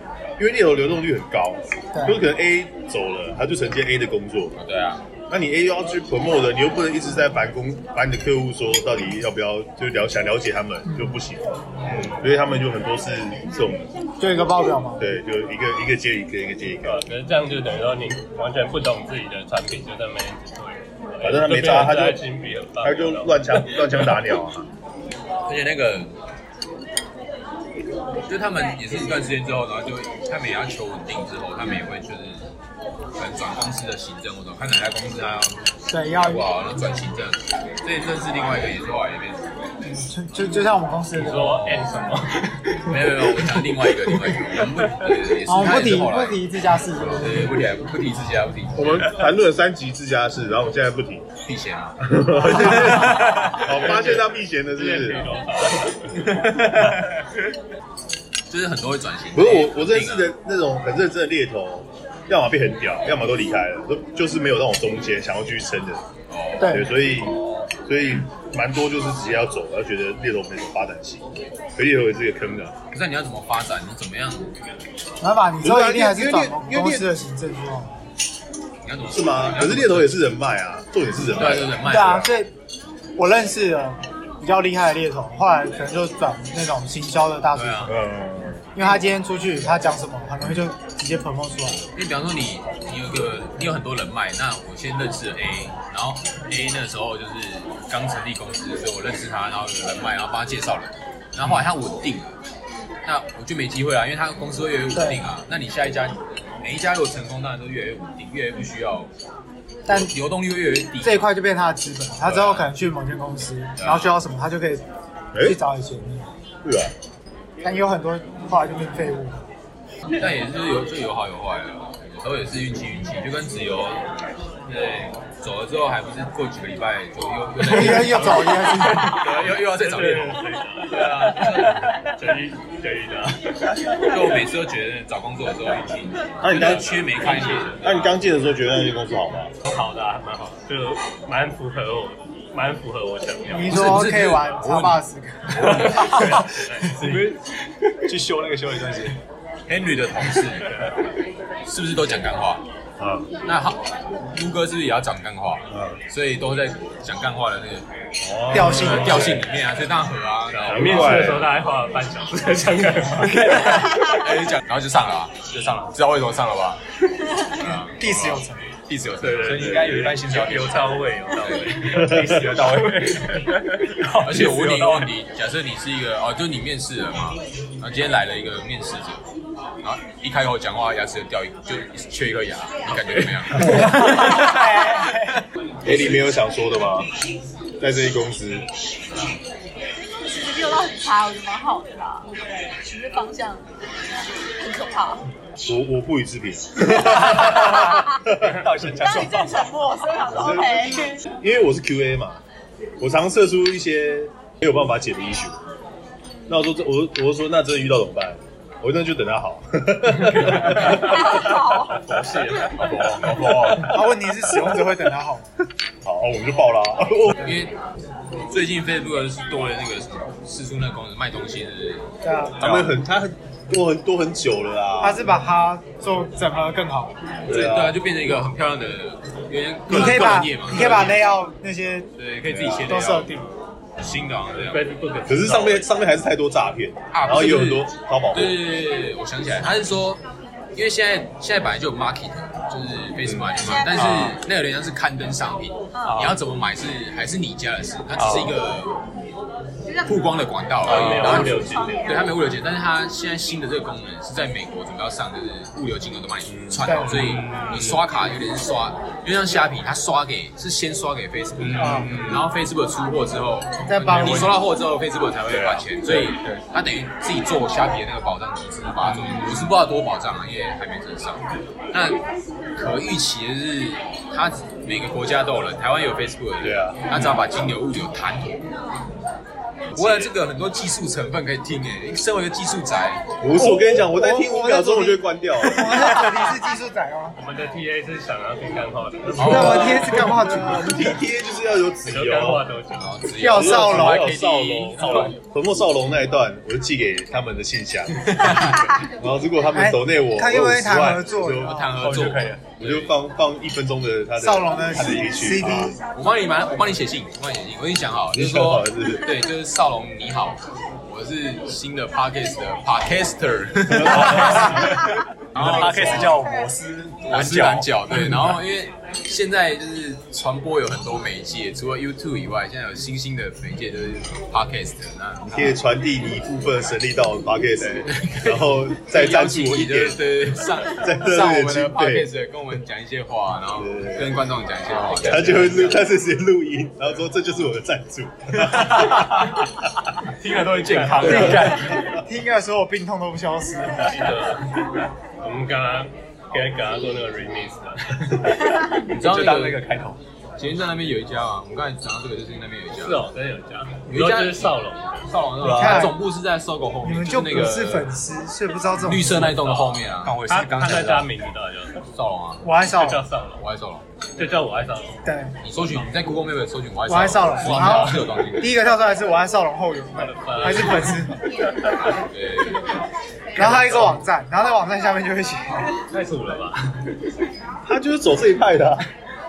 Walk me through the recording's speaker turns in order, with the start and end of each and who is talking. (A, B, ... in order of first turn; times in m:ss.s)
0:00.4-0:04.5 A
0:01.9-0:02.2 B
0:04.6-0:05.0 C
0:05.3-0:13.8 A
0:14.2-0:15.1 B
0:15.0-0:17.0 A
0:16.8-0:24.1 D
0:21.2-0:22.2 A
0:22.8-0:24.7 A
0:25.4-0:26.1 C
0:28.3-0:32.5 C
0:33.2-0:39.4 C
0:35.9-0:36.5 B
0:39.8-0:41.8 B
0:41.1-0:43.3 D
0:42.9-0:46.4 C
0:45.4-0:47.5 B
0:47.0-0:49.1 C
0:48.7-0:51.2 A
0:51.4-0:53.6 C
0:52.0-0:55.4 A
0:53.0-0:56.3 D
0:58.5-1:00.3 C
0:59.3-1:06.0 A
1:06.3-1:06.8 C
1:06.6-1:06.9 B
1:06.6-1:11.2 A
1:11.8-1:12.7 A
1:12.9-1:14.5 C
1:15.2-1:18.0 B
1:15.6-1:17.1 A
1:18.8-1:20.3 C
1:19.1-1:21.8 A
1:21.4-1:22.3 C
1:21.8-1:22.5 B
1:23.2-1:28.0 B
1:27.5-1:27.9 C
1:27.9-1:28.6 A
1:28.8-1:31.8 B
1:31.9-1:42.4 C
1:43.0-1:49.1 C
1:44.9-1:45.2 B
1:49.8-1:50.1 B
1:49.9-1:51.3 C
1:51.0-1:54.8 B
1:52.2-1:52.7 C
1:53.8-1:54.2 C
1:55.3-1:55.6 A
1:55.4-1:56.2 B
1:56.6-1:56.9 A
1:57.6-1:59.4 B
2:00.1-2:04.0 C
2:04.7-2:11.9 C
2:07.6-2:09.3 B
2:08.9-2:13.8 D
2:14.0-2:17.8 C
2:16.4-2:19.5 A
2:16.6-2:18.2 D
2:19.6-2:23.9 D
2:23.5-2:26.6 B
2:23.7-2:25.0 C
2:25.6-2:26.1 C
2:25.7-2:27.2 D
2:26.9-2:27.4 E
2:28.0-2:29.2 E
2:29.7-2:30.7 C
2:31.6-2:32.6 C
2:33.0-2:33.2 A
2:33.4-2:33.8 C
2:34.3-2:37.8 C
2:35.7-2:36.0 A
2:38.2-2:39.4 A
2:38.5-2:41.3 C
2:38.5-2:39.4 B
2:40.5-2:44.0 D
2:40.7-2:41.5 A
2:43.5-2:46.8 C
2:47.5-2:50.0 C
2:47.6-2:48.6 B
2:49.2-2:53.9 D
2:49.4-2:50.9 E
2:51.4-2:51.7 C
2:51.9-2:53.4 E
2:54.0-2:55.1 E
2:54.2-2:59.2 C
2:59.8-3:04.3 C
3:03.1-3:04.0 D
3:03.7-3:05.4 B
3:05.8-3:07.1 A
3:05.8-3:06.2 C
3:07.8-3:08.7 A
3:10.0-3:12.3 F
3:12.8-3:13.6 F
3:14.6-3:15.2 F
3:15.6-3:18.5 A
3:17.0-3:18.2 F
3:18.4-3:19.7 E
3:18.8-3:21.2 F
3:20.3-3:22.4 A
3:23.0-3:25.6 A
3:26.5-3:31.2 A
3:30.9-3:32.0 F
3:31.9-3:32.9 D
3:32.8-3:33.9 C
3:33.1-3:34.7 A
3:33.9-3:35.5 B
3:36.0-3:37.4 A
3:37.4-3:37.7 C
3:38.5-3:42.1 C
3:42.2-3:42.7 B
3:42.6-3:43.0 C
3:42.6-3:45.2 A
3:45.0-3:47.1 B
3:47.5-3:51.2 C
3:47.5-3:48.0 A
3:49.9-3:50.9 A
3:49.9-3:52.1 B
3:52.2-3:53.4 C
3:52.5-3:52.9 A
3:52.8-3:53.4 B
3:54.0-3:54.8 C
3:54.6-3:55.8 D
3:55.3-3:58.6 A
3:57.1-4:00.2 C
4:00.7-4:08.9 C
4:03.2-4:03.5 A
4:03.6-4:04.3 F
4:05.9-4:06.2 F
4:08.2-4:08.5 A
4:09.8-4:12.4 F
4:10.0-4:32.2 C
4:10.8-4:12.1 D
4:16.5-4:16.9 A
4:16.8-4:17.4 B
4:17.1-4:18.0 E
4:21.6-4:22.4 E
4:21.8-4:22.1 B
4:23.8-4:24.6 B
4:25.5-4:26.2 A
4:29.1-4:29.6 E
4:32.8-4:38.6 C
4:36.6-4:37.0 A
4:39.9-4:40.3 A
4:39.9-4:43.2 C
4:43.4-4:46.5 A
4:43.5-4:47.4 B
4:47.4-4:50.3 D
4:49.3-4:50.2 C
4:49.4-4:50.9 B
4:49.9-4:52.7 A
4:52.0-4:53.2 D
4:53.0-4:55.3 C
4:53.4-4:54.3 B
4:53.4-4:58.7 A
4:58.3-4:58.9 C
4:59.2-5:05.9 A
4:59.7-5:02.1 B
5:01.6-5:03.1 C
5:02.0-5:02.7 E
5:04.4-5:05.9 B
5:06.1-5:15.0 C
5:08.3-5:09.3 A
5:13.9-5:14.7 A
5:13.9-5:18.6 E
5:15.5-5:16.4 C
5:16.0-5:16.8 F
5:17.2-5:25.4 C
5:25.4-5:32.3 A
5:27.9-5:36.0 C
5:33.8-5:34.3 A
5:34.9-5:35.8 D
5:35.2-5:39.6 A
5:40.4-5:42.0 E
5:40.4-5:41.9 C
5:41.2-5:44.2 B
5:41.7-5:42.2 A
5:44.0-5:48.6 D
5:49.1-5:49.8 C
5:49.1-5:50.2 E
5:50.6-5:53.2 C
5:53.0-5:55.4 D
5:54.1-5:58.1 C
5:55.6-5:56.2 B
5:55.6-5:56.1 A
5:57.0-5:59.6 B
5:59.0-6:00.4 C
5:59.5-6:02.0 D
6:00.2-6:01.3 E
6:02.1-6:02.6 C
6:02.6-6:03.2 B
6:02.8-6:03.6 D
6:03.6-6:04.0 C
6:04.4-6:05.2 D
6:05.2-6:05.6 B
6:05.6-6:08.8 C
6:07.1-6:11.3 B
6:07.6-6:08.3 D
6:10.2-6:11.3 D
6:12.0-6:12.8 C
6:13.6-6:15.9 B
6:13.6-6:14.2 C
6:16.1-6:17.0 D
6:17.8-6:19.0 A